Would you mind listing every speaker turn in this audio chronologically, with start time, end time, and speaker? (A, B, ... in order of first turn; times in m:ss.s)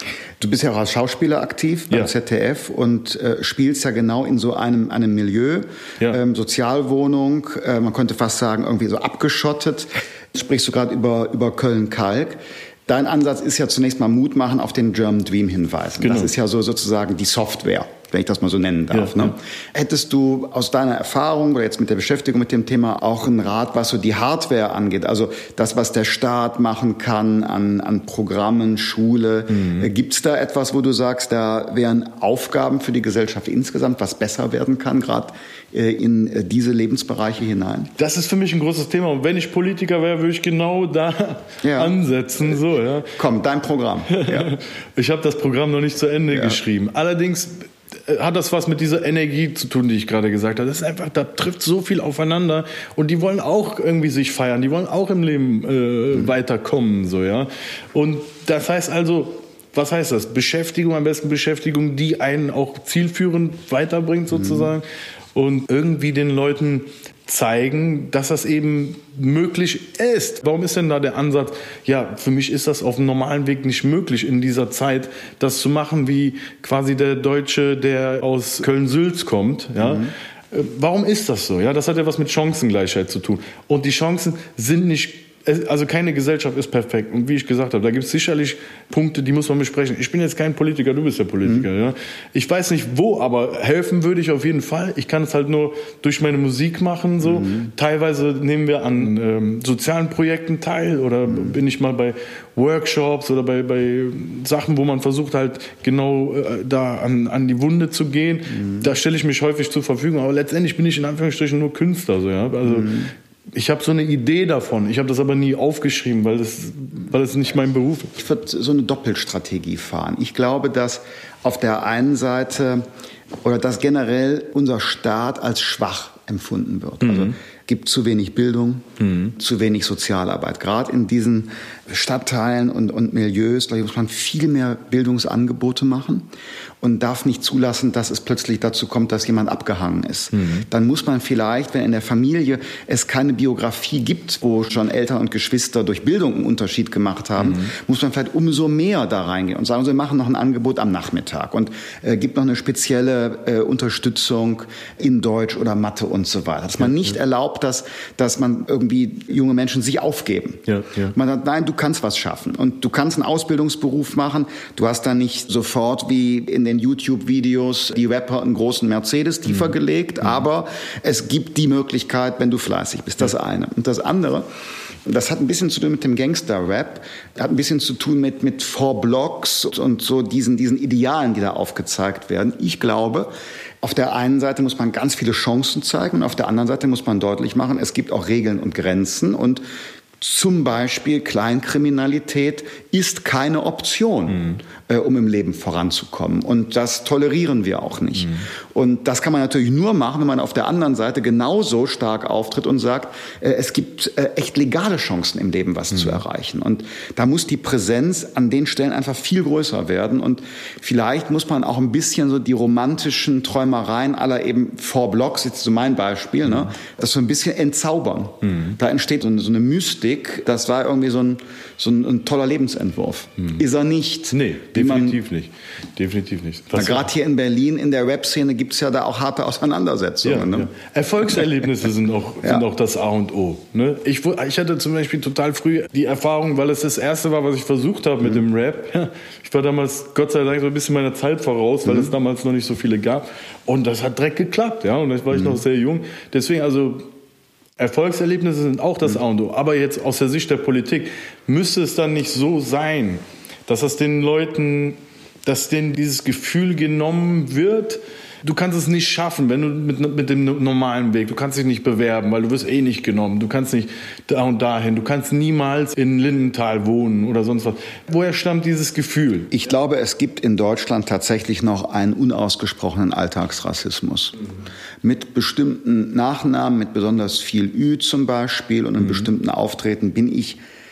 0:00.4-0:37.9 A
0:16.0-0:16.3 B
0:18.9-0:19.3 B
0:29.5-0:29.9 B
0:38.0-0:43.2 B
0:41.6-0:41.9 A
0:43.1-0:44.5 A
0:44.1-1:58.1 B
1:04.4-1:04.7 A
1:19.8-1:20.1 A
1:37.2-1:37.7 A
1:52.6-1:53.1 A
1:58.1-2:02.8 A
2:03.4-2:16.3 A
2:07.0-2:07.4 B
2:09.0-2:09.3 B
2:16.8-2:54.4 A
2:20.3-2:20.6 B
2:27.4-2:27.7 B
2:36.8-2:37.1 B
2:40.7-2:41.1 B
2:55.0-3:03.3 A
3:03.8-3:09.6 A
3:10.2-3:45.2 A
3:14.3-3:14.6 B
3:38.4-3:38.8 B
3:44.3-3:47.0 B
3:46.7-3:50.7 A
3:50.2-4:07.0 B
4:05.3-4:05.6 A
4:07.8-4:29.5 B
4:29.5-4:34.4 A
4:35.0-4:40.6 A